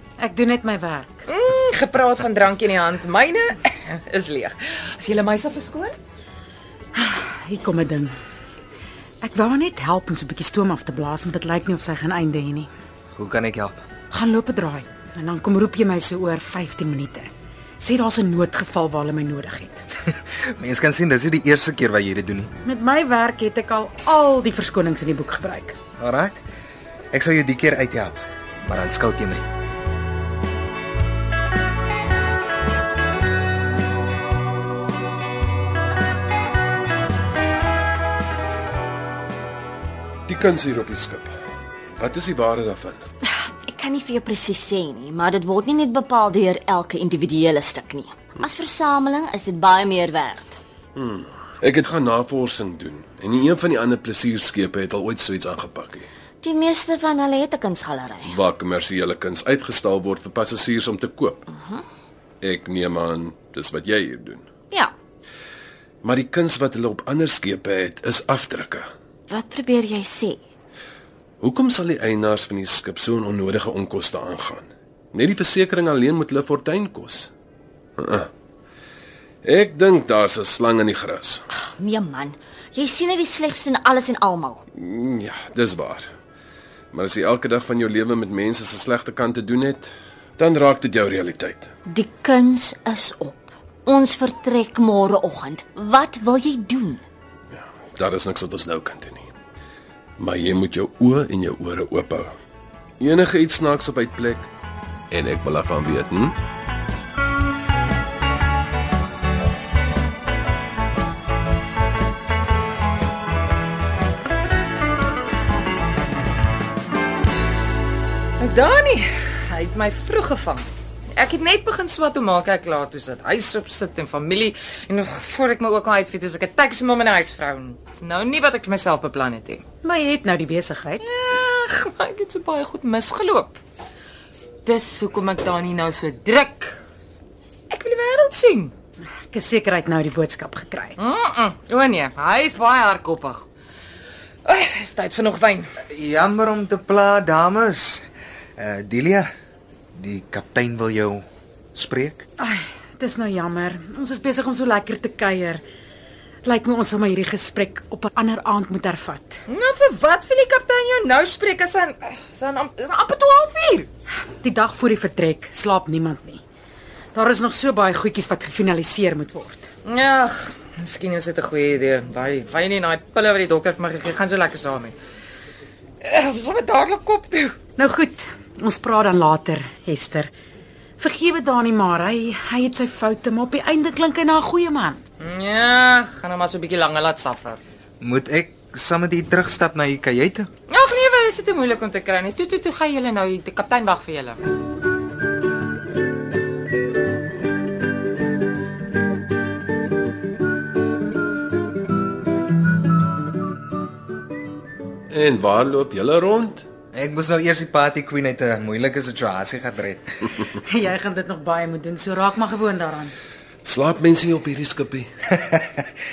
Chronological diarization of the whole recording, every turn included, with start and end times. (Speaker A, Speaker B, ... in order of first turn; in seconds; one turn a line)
Speaker A: 0.2-1.2
Speaker B: 1.3-6.0
Speaker A: 7.3-8.1
Speaker A: 9.2-12.7
Speaker C: 13.2-13.8
Speaker A: 14.1-19.8
Speaker C: 20.6-22.5
Speaker A: 22.6-25.8
Speaker C: 26.0-26.4
Speaker C: 27.1-29.4
Speaker D: 40.3-41.3
Speaker D: 42.0-43.0
Speaker E: 43.4-50.5
Speaker D: 51.0-56.1
Speaker E: 56.4-58.4
Speaker D: 58.2-61.4
Speaker E: 61.5-61.8
Speaker D: 62.4-64.5
Speaker D: 66.0-68.9
Speaker E: 69.3-70.4
Speaker D: 71.4-77.3
Speaker D: 78.0-78.3
Speaker D: 79.4-81.4
Speaker E: 81.5-84.6
Speaker D: 84.8-86.1
Speaker D: 86.9-91.7
Speaker E: 91.9-97.0
Speaker D: 97.5-99.3
Speaker D: 100.2-102.3
Speaker D: 103.0-104.5
Speaker D: 105.1-106.3
Speaker B: 118.4-129.6
Speaker A: 129.8-131.0
Speaker B: 131.0-133.6
Speaker B: 134.6-136.8
Speaker B: 137.7-138.7
Speaker A: 139.3-141.0
Speaker B: 141.0-143.5
Speaker B: 144.4-145.7
Speaker C: 145.8-148.0
Speaker C: 148.6-149.3
Speaker C: 149.9-151.2
Speaker C: 151.7-152.2
Speaker A: 152.4-155.6
Speaker A: 156.4-159.4
Speaker B: 159.5-163.9
Speaker A: 164.4-166.4
Speaker A: 167.1-169.7
Speaker B: 169.8-174.9
Speaker B: 176.0-177.6
Speaker A: 177.8-180.3
Speaker A: 181.0-185.0
Speaker B: 185.2-187.6
Speaker C: 188.0-190.5
Speaker B: 190.7-194.4
Speaker D: 205.1-206.6
Speaker C: 206.9-210.0
Speaker A: 210.6-213.1
Speaker D: 213.6-215.1
Speaker C: 215.3-215.8